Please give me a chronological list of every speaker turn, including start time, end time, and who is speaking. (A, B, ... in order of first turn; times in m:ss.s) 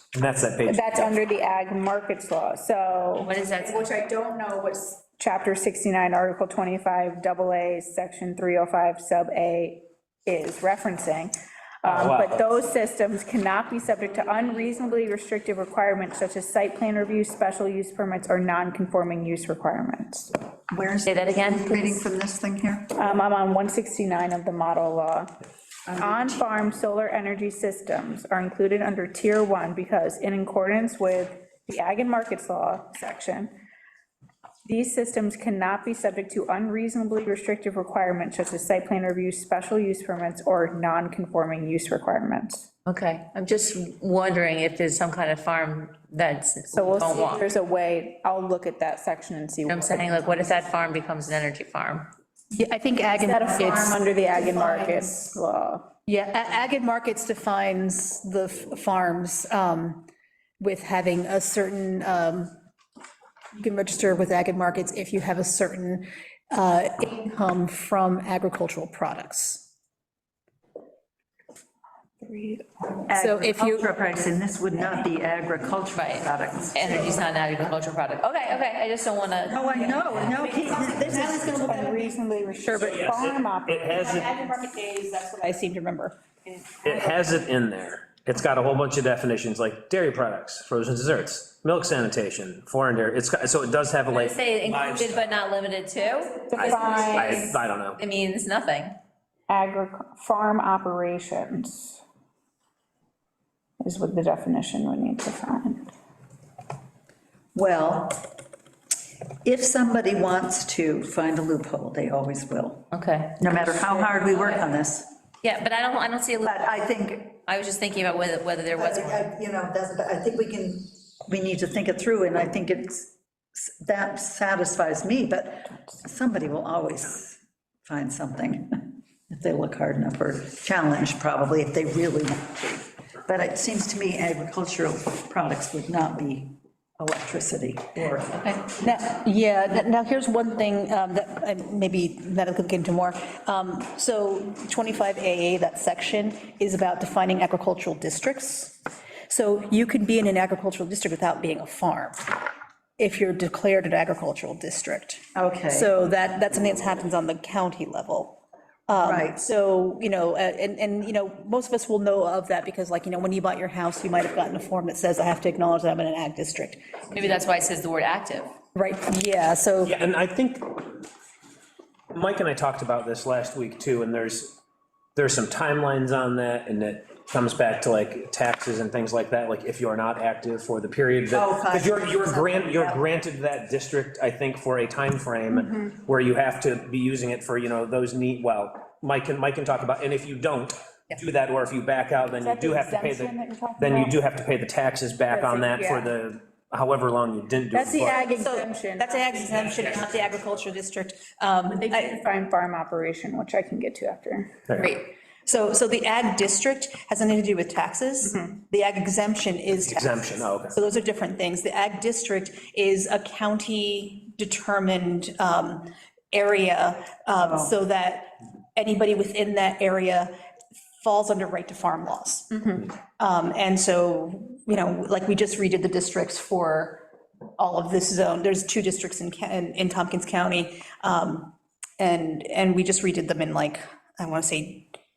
0:00.1-0:01.1 A
0:00.6-0:20.3 B
0:03.2-0:03.8 C
0:11.8-0:12.5 A
0:20.7-0:22.9 D
0:21.1-0:22.0 C
0:23.0-0:25.3 B
0:25.9-0:26.4 D
0:26.0-0:33.5 B
0:34.6-0:42.7 B
0:42.9-0:47.4 C
0:46.7-0:50.6 B
0:49.7-0:52.1 C
0:52.5-0:55.3 E
0:53.2-0:55.9 B
0:56.1-1:00.0 E
1:00.6-1:02.5 E
1:03.6-1:09.7 E
1:13.1-1:17.2 D
1:13.1-1:13.9 E
1:15.9-1:20.3 C
1:19.5-1:22.0 D
1:20.4-1:27.1 E
1:21.7-1:24.0 B
1:22.8-1:24.4 A
1:26.8-1:35.3 A
1:34.1-1:39.0 C
1:36.5-1:37.6 B
1:37.2-1:38.0 A
1:39.5-1:42.0 B
1:43.8-1:45.9 B
1:47.6-1:48.3 D
1:49.4-1:55.1 D
1:52.9-1:54.6 C
1:55.4-1:56.8 C
1:56.4-1:57.4 D
1:57.5-1:59.3 C
1:58.7-2:18.8 D
2:18.8-2:32.3 E
2:33.0-2:46.8 E
2:35.4-2:35.9 D
2:38.9-2:39.4 D
2:47.1-2:48.5 C
2:48.8-2:50.0 E
2:49.8-2:50.9 A
2:52.1-2:54.6 A
2:55.2-3:18.3 A
3:01.3-3:03.0 D
3:12.4-3:14.1 B
3:15.3-3:16.1 B
3:17.7-3:19.5 B
3:18.2-3:22.2 E
3:19.7-3:20.0 A
3:21.7-3:24.6 B
3:25.4-3:40.3 E
3:29.8-3:30.8 A
3:37.4-3:37.7 D
3:41.0-3:47.0 E
3:47.6-3:54.9 E